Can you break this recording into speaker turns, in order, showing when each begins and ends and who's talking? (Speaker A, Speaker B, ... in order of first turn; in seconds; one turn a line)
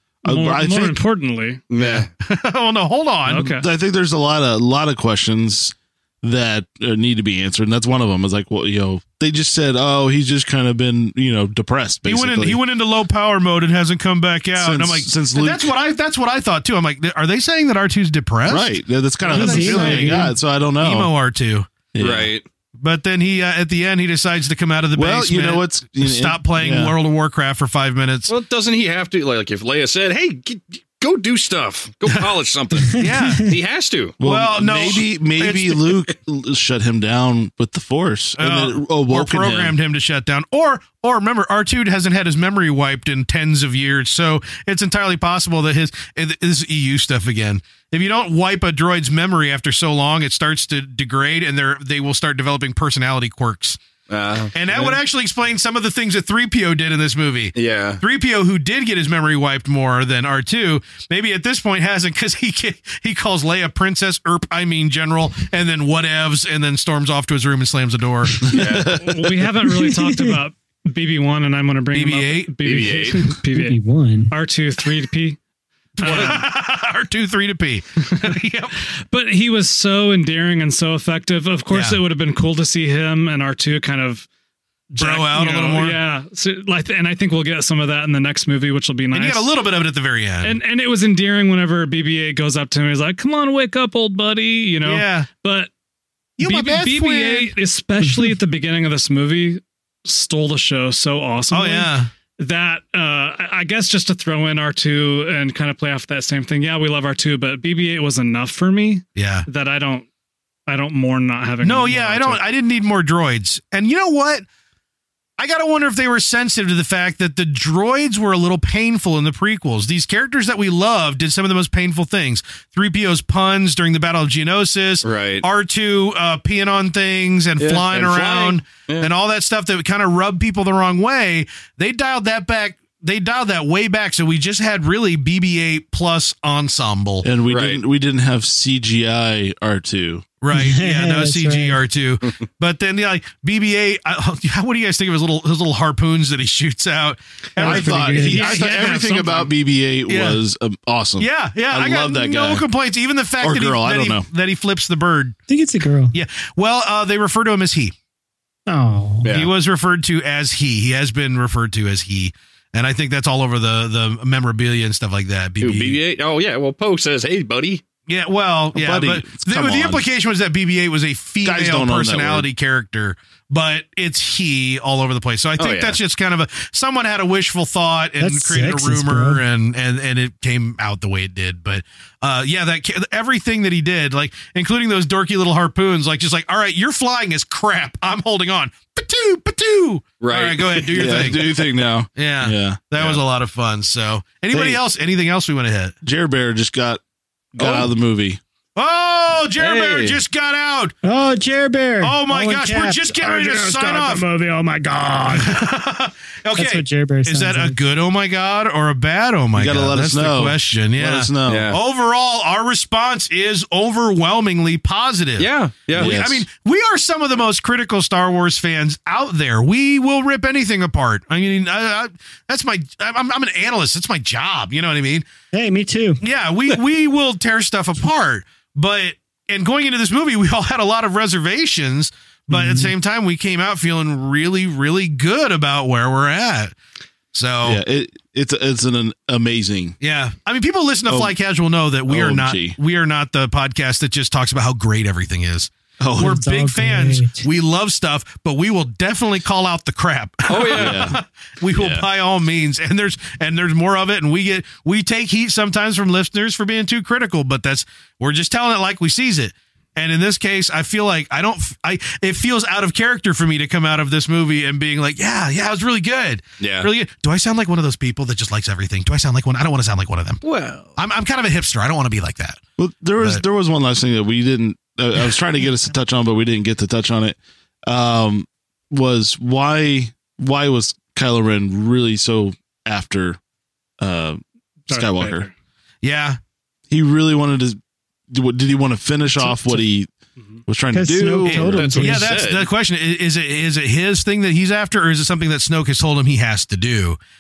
Speaker A: 0.2-1.0
Speaker B: 0.2-1.6
Speaker C: 1.7-2.1
Speaker D: 2.2-3.5
Speaker B: 3.2-3.6
Speaker A: 3.5-12.6
Speaker D: 12.1-18.8
Speaker A: 14.6-15.7
Speaker A: 18.5-21.1
Speaker D: 19.3-20.3
Speaker E: 19.3-20.3
Speaker D: 20.8-21.8
Speaker A: 21.9-22.3
Speaker C: 22.0-22.4
Speaker D: 22.8-28.3
Speaker A: 24.9-26.9
Speaker C: 28.3-34.2
Speaker D: 32.9-33.5
Speaker E: 33.0-33.4
Speaker A: 34.2-39.7
Speaker D: 34.2-35.8
Speaker D: 38.4-53.8
Speaker C: 54.1-55.0
Speaker D: 54.5-68.8
Speaker C: 57.5-58.0
Speaker C: 68.4-68.9
Speaker A: 68.5-69.1
Speaker B: 68.9-73.8
Speaker E: 69.8-70.4
Speaker D: 71.9-72.6
Speaker C: 72.6-73.2
Speaker E: 73.5-74.3
Speaker B: 74.3-75.4
Speaker B: 76.0-76.5
Speaker D: 76.0-78.8
Speaker B: 78.1-78.3
Speaker B: 78.9-84.3
Speaker D: 81.7-82.0
Speaker B: 84.9-89.5
Speaker D: 85.0-86.0
Speaker D: 89.1-90.6
Speaker B: 90.4-95.7
Speaker D: 94.8-95.3
Speaker D: 96.4-97.5
Speaker B: 96.4-110.1
Speaker D: 101.5-102.1
Speaker D: 109.2-109.5
Speaker B: 110.7-112.4
Speaker D: 111.6-114.4
Speaker D: 115.4-137.3
Speaker C: 125.0-125.5
Speaker C: 127.6-129.1
Speaker A: 137.2-140.3
Speaker C: 137.4-137.8
Speaker D: 140.4-148.2
Speaker E: 140.5-141.8
Speaker E: 147.5-148.6
Speaker A: 147.6-152.6
Speaker B: 148.1-149.5
Speaker D: 150.1-150.4
Speaker D: 151.2-155.3
Speaker A: 153.4-154.3
Speaker E: 155.5-156.2
Speaker D: 156.1-157.9
Speaker E: 158.7-159.3
Speaker C: 159.2-159.5
Speaker D: 159.3-166.0
Speaker C: 165.6-167.8
Speaker D: 168.1-191.4
Speaker A: 168.7-170.0
Speaker A: 171.4-172.5
Speaker C: 175.6-176.0
Speaker E: 178.2-179.4
Speaker C: 190.2-191.4
Speaker A: 190.9-193.2
Speaker D: 192.2-195.9
Speaker A: 194.5-194.8
Speaker A: 196.0-197.0
Speaker A: 197.5-198.4
Speaker C: 197.6-197.9
Speaker D: 198.8-200.9
Speaker C: 199.6-200.2
Speaker E: 201.0-205.6
Speaker D: 202.0-204.2
Speaker D: 205.3-225.2
Speaker E: 206.6-207.8
Speaker A: 209.5-211.7
Speaker C: 211.4-211.8
Speaker C: 215.4-216.2
Speaker A: 215.9-216.5
Speaker E: 225.5-226.2
Speaker D: 226.2-236.7
Speaker E: 232.5-232.9
Speaker D: 237.3-237.8
Speaker A: 237.6-240.0
Speaker D: 240.0-270.4
Speaker A: 241.1-241.3
Speaker A: 242.1-242.8
Speaker A: 246.0-246.4
Speaker E: 246.2-247.4
Speaker C: 250.5-250.9
Speaker A: 250.7-251.2
Speaker A: 251.7-252.1
Speaker C: 266.6-266.9
Speaker C: 270.4-270.9
Speaker D: 270.9-272.6
Speaker A: 272.8-283.4
Speaker A: 284.0-285.5
Speaker B: 284.9-285.5
Speaker D: 286.0-286.4
Speaker A: 286.9-287.8
Speaker A: 288.3-290.1
Speaker A: 290.6-292.1
Speaker E: 290.9-292.3
Speaker D: 291.5-297.2
Speaker C: 291.7-292.7